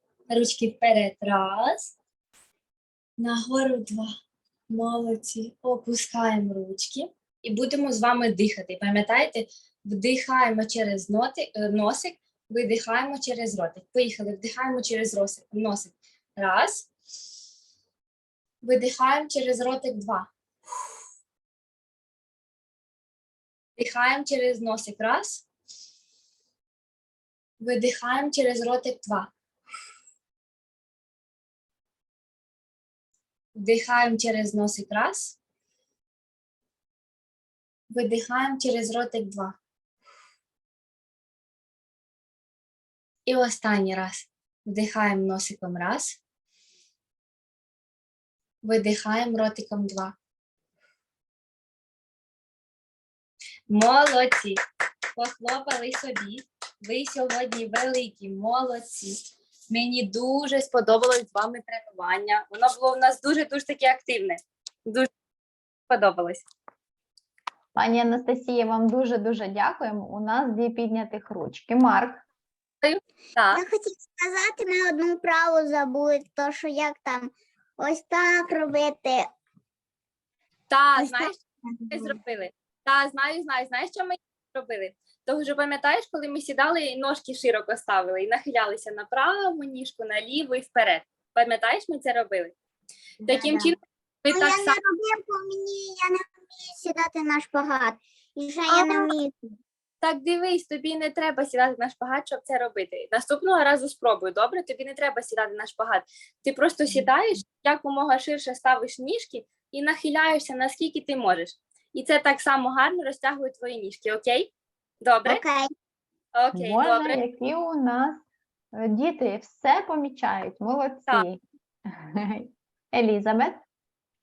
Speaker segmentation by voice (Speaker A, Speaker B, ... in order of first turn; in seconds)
Speaker A: 0.3-1.9, 3.2-4.1, 4.7-16.9, 18.6-20.3, 23.8-25.4, 27.6-29.3, 33.5-35.4, 37.9-39.6, 43.2-46.2, 48.6-50.1, 53.7-54.6, 55.1-65.1, 65.9-66.5, 72.8-73.6, 80.7-81.4, 81.9-92.5, 93.2-94.8, 98.7-99.1, 100.0-115.4, 116.3-117.2
Speaker B: 67.7-72.2, 116.5-118.2, 118.7-123.6
Speaker C: 73.5-79.2, 81.0-82.1, 93.2-93.7, 94.3-99.3, 115.2-115.7